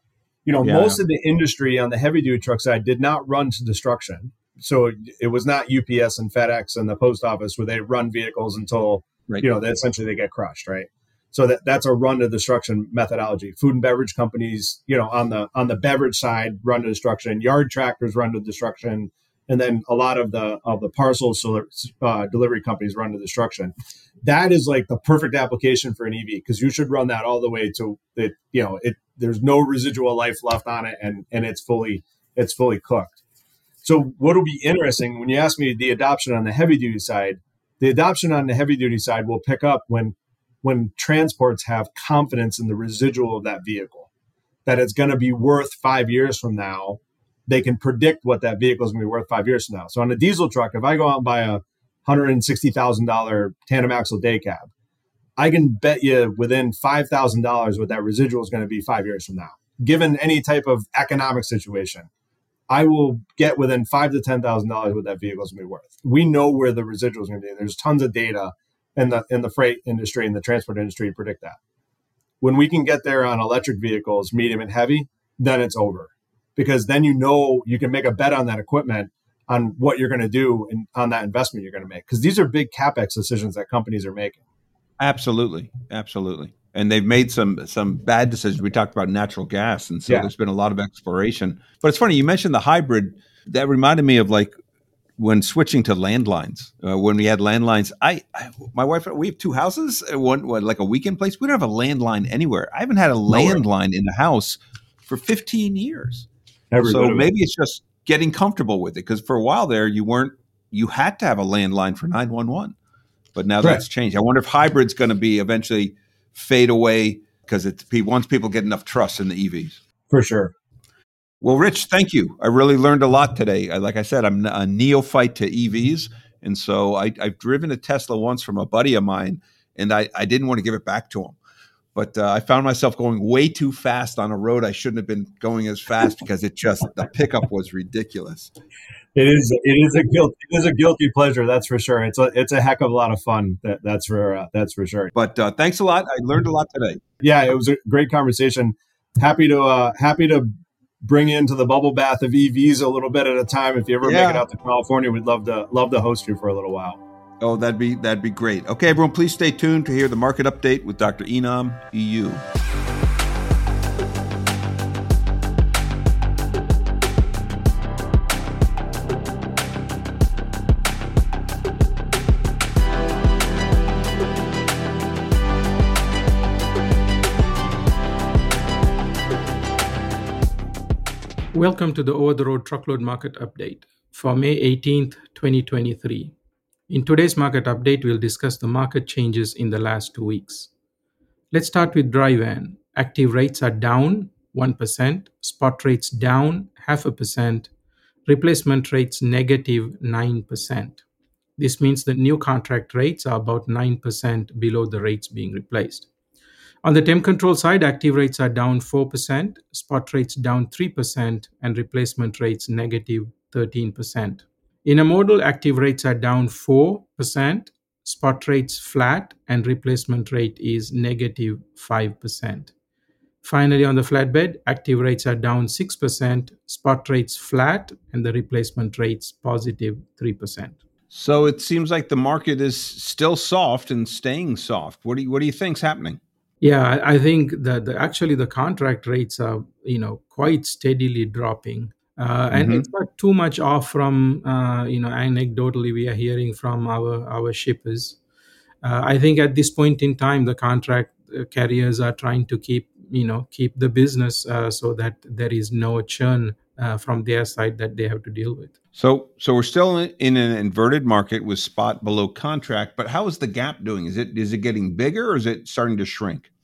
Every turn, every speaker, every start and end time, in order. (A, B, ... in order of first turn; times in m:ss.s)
0:00.4-0:23.7 A
0:00.6-0:01.0 B
0:24.2-0:33.2 A
0:33.8-0:44.1 A
0:44.6-0:54.7 A
0:55.4-1:02.1 A
1:02.7-1:11.6 A
1:12.4-1:24.4 A
1:25.0-1:34.5 B
1:35.2-1:46.3 B
1:43.3-1:43.6 A
1:46.7-1:47.3 A
1:46.8-1:52.8 B
1:53.3-1:59.8 B
2:00.1-2:00.5 A
2:01.4-2:11.4 B
2:11.9-2:18.5 B
2:19.1-2:25.1 A
2:25.1-2:27.0 B
2:27.2-2:30.5 A
2:31.0-2:37.0 A
2:34.0-2:34.4 B
2:37.4-2:42.4 B
3:01.5-3:06.3 C
3:06.9-3:10.7 C
3:11.5-3:17.7 C
3:18.2-3:21.0 C
3:21.6-3:26.1 C
3:26.8-3:42.7 C
3:43.4-3:50.8 C
3:51.1-3:56.2 B
3:56.6-4:08.2 C
4:02.5-4:02.9 B
4:08.8-4:18.7 C
4:19.0-4:26.5 B